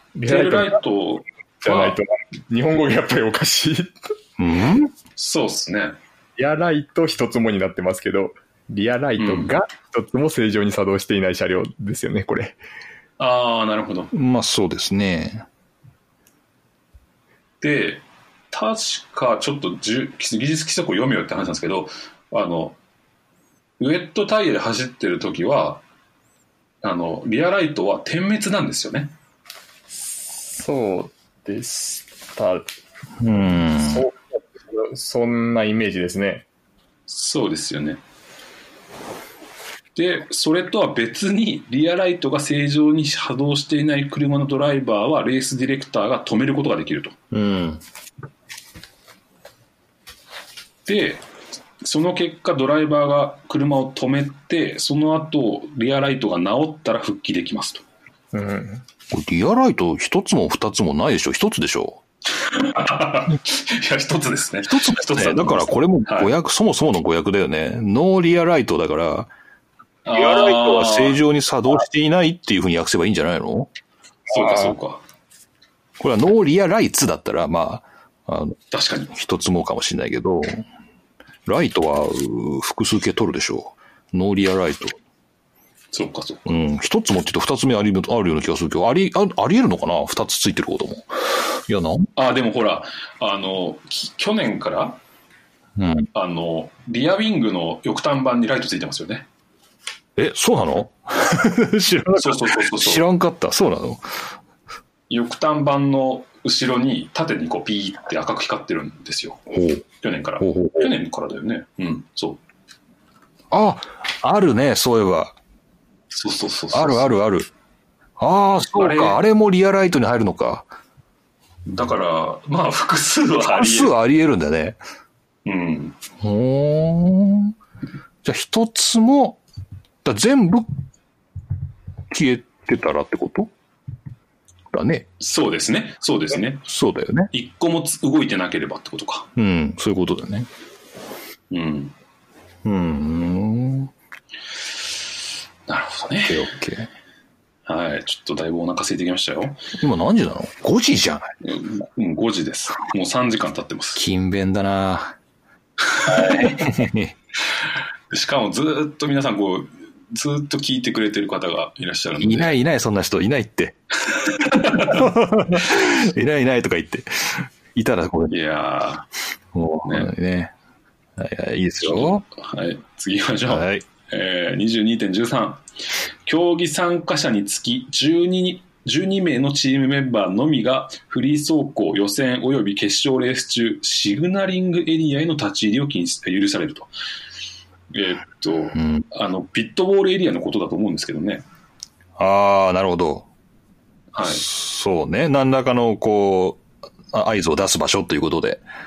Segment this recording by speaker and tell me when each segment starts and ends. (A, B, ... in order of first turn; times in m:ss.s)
0:00.2-0:00.8 A
0:00.3-0:02.0 B
0:01.6-0:04.0 A
0:04.4-0:04.9 C
0:05.2-0:06.0 B
0:06.4-0:12.6 A
0:09.2-0:09.5 B
0:13.2-0:14.1 B
0:14.1-0:15.5 C
0:17.6-0:22.8 B
0:23.8-0:25.8 B
0:26.8-0:29.1 B
0:30.4-0:32.6 A
0:33.2-0:34.0 C
0:33.8-0:36.4 A
0:37.1-0:38.0 B
0:40.0-0:47.1 B
0:47.3-0:47.8 C
0:50.9-0:51.2 B
0:51.8-0:57.8 B
0:58.3-0:58.8 A
0:59.1-1:02.0 C
1:02.4-1:06.3 B
1:04.7-1:09.3 C
1:10.1-1:11.2 B
1:10.1-1:13.7 C
1:14.3-1:15.0 B
1:16.0-1:18.6 C
1:18.7-1:19.1 B
1:19.1-1:20.6 C
1:21.5-1:25.0 C
1:25.9-1:26.6 B
1:26.5-1:32.1 C
1:32.2-1:35.0 B
1:35.8-1:36.1 C
1:36.2-1:39.2 B
1:40.2-1:44.3 C
1:42.2-1:43.0 B
1:45.1-1:49.4 B
1:49.5-1:49.8 C
1:50.0-1:52.4 B
1:50.4-1:50.9 C
1:53.5-1:55.4 C
1:56.1-1:57.1 B
1:56.7-1:57.5 C
1:58.2-2:00.7 C
1:58.8-1:59.2 B
2:01.7-2:03.9 B
2:03.4-2:04.8 C
2:05.5-2:06.0 B
2:06.2-2:07.6 C
2:08.2-2:09.4 C
2:10.0-2:10.7 C
2:12.1-2:13.5 C
2:14.7-2:15.1 C
2:15.2-2:16.6 B
2:16.6-2:17.3 C
2:17.3-2:19.3 B
2:19.4-2:20.5 C
2:21.5-2:21.9 B
2:22.6-2:23.9 C
2:25.7-2:26.4 B
2:26.2-2:26.9 C
2:27.7-2:29.6 B
2:29.8-2:31.3 C
2:31.4-2:34.0 B
2:34.0-2:35.2 C
2:35.8-2:36.7 B
2:36.0-2:37.1 C
2:38.1-2:42.5 B
2:42.2-2:43.8 C
2:44.4-2:48.4 C
2:44.4-2:45.0 B
2:48.3-2:49.1 B
2:49.5-2:50.5 C
2:49.8-2:50.1 B
2:51.2-2:52.2 C
2:51.9-2:55.6 B
2:53.5-2:53.8 C
2:56.3-3:06.9 B
3:07.9-3:11.4 B
3:08.8-3:09.0 C
3:12.2-3:13.3 C
3:14.1-3:14.5 B
3:14.2-3:18.6 C